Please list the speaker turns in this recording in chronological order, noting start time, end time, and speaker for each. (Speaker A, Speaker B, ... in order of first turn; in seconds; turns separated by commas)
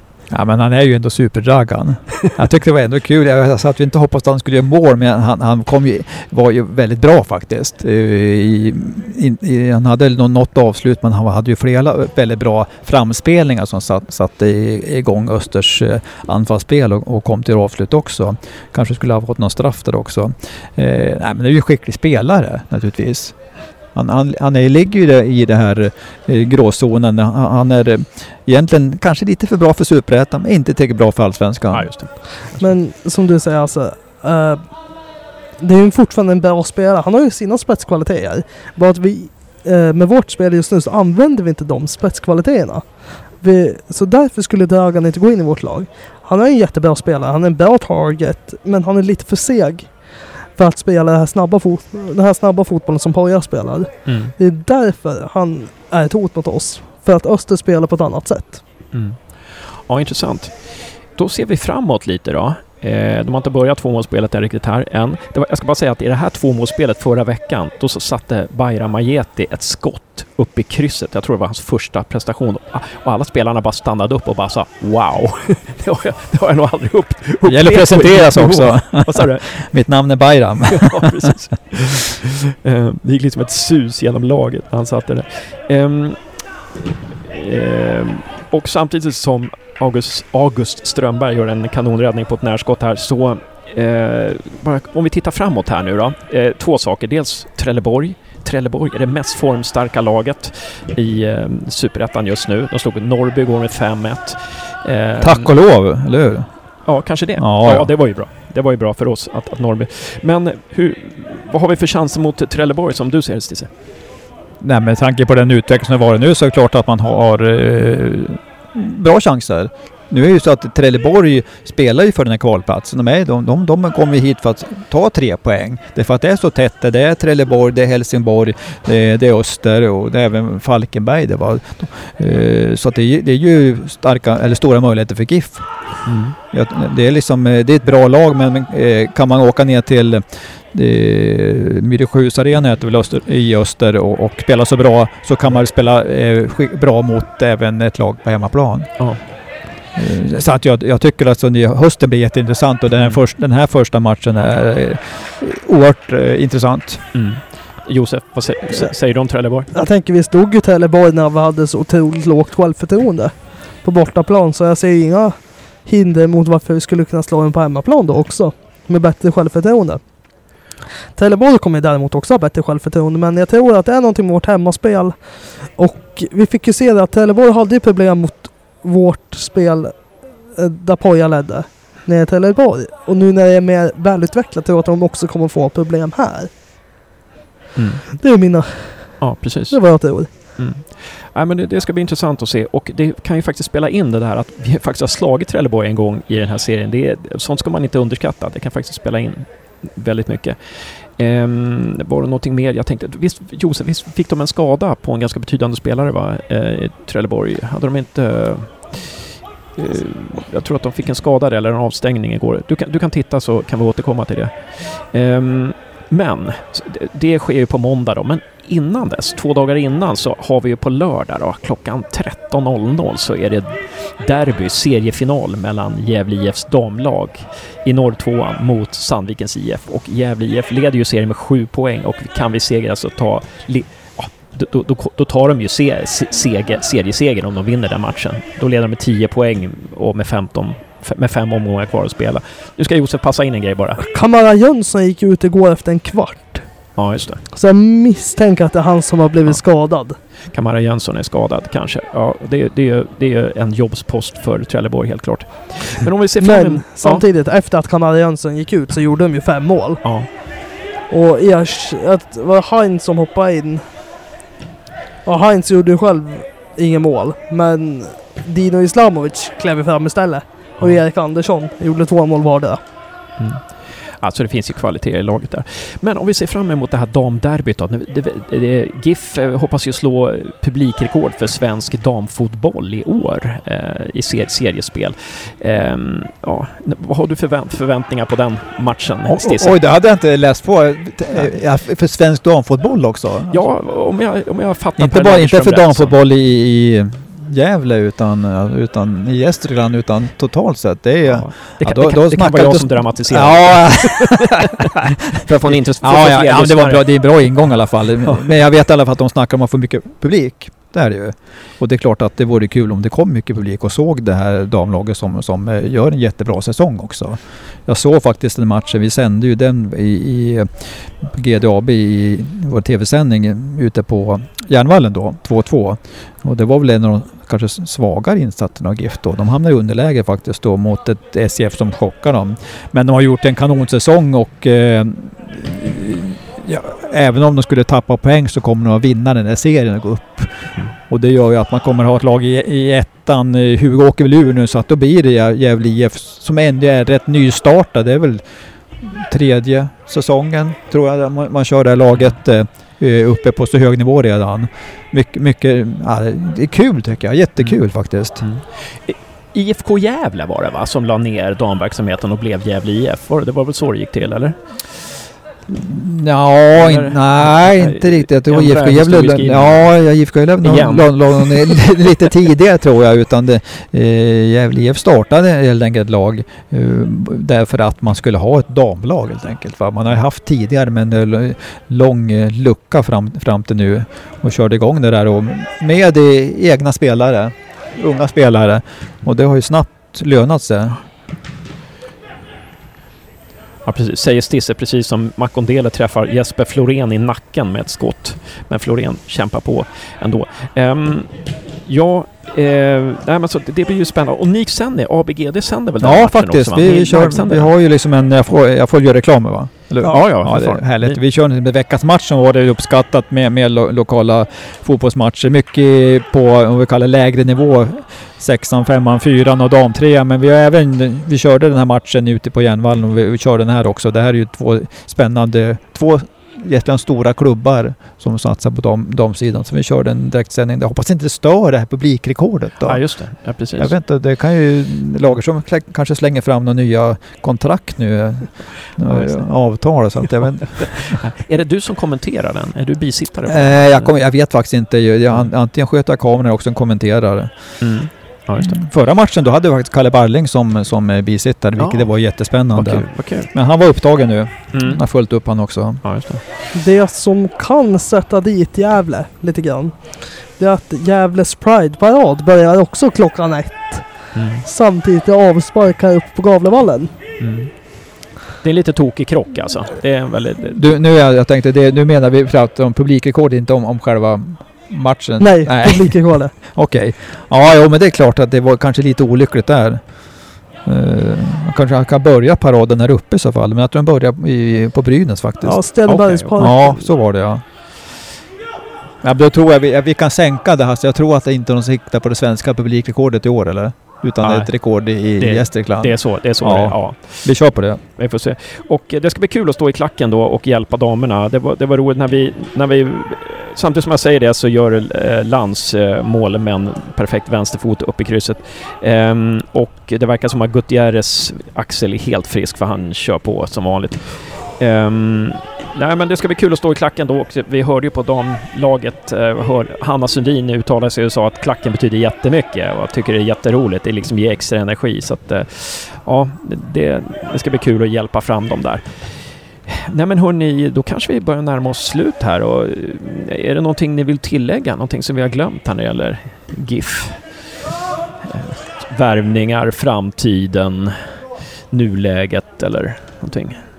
Speaker A: 0.3-32.1, Speaker B: 31.7-32.7, Speaker C: 32.5-58.6, Speaker B: 54.0-54.3, Speaker B: 58.9-80.0, Speaker A: 77.4-81.3, Speaker B: 80.7-86.5, Speaker B: 87.2-105.5, Speaker A: 105.2-108.0, Speaker B: 106.8-113.7, Speaker A: 114.6-149.3, Speaker B: 136.1-136.4, Speaker B: 149.0-149.2, Speaker A: 149.9-157.1, Speaker B: 153.0-153.2, Speaker B: 157.1-159.7, Speaker C: 159.7-170.6, Speaker C: 171.1-186.5, Speaker B: 187.8-188.1, Speaker C: 188.2-190.6, Speaker B: 189.2-244.0, Speaker C: 244.0-250.2, Speaker B: 246.9-247.4, Speaker B: 250.5-257.2, Speaker C: 256.4-263.9, Speaker B: 260.0-260.3, Speaker C: 265.2-272.8, Speaker B: 273.4-289.8, Speaker A: 289.2-293.7, Speaker B: 293.5-296.1, Speaker A: 295.0-358.5, Speaker B: 301.2-308.4, Speaker B: 352.1-352.4, Speaker B: 357.6-365.1, Speaker A: 365.7-391.1, Speaker B: 366.7-371.9, Speaker B: 393.8-407.7, Speaker A: 406.0-441.2, Speaker C: 410.0-410.4, Speaker B: 410.0-411.2, Speaker B: 432.9-433.9, Speaker B: 439.0-444.2, Speaker A: 443.4-448.0, Speaker B: 447.8-448.8, Speaker A: 448.6-456.1, Speaker B: 451.8-453.7, Speaker B: 454.7-456.4, Speaker C: 456.7-467.4, Speaker B: 464.3-464.6, Speaker B: 467.4-470.9, Speaker A: 470.7-486.0, Speaker C: 475.4-476.6, Speaker C: 485.6-487.1, Speaker B: 486.0-486.8, Speaker A: 486.6-487.6, Speaker A: 489.2-498.0, Speaker B: 494.4-537.8, Speaker B: 538.4-543.9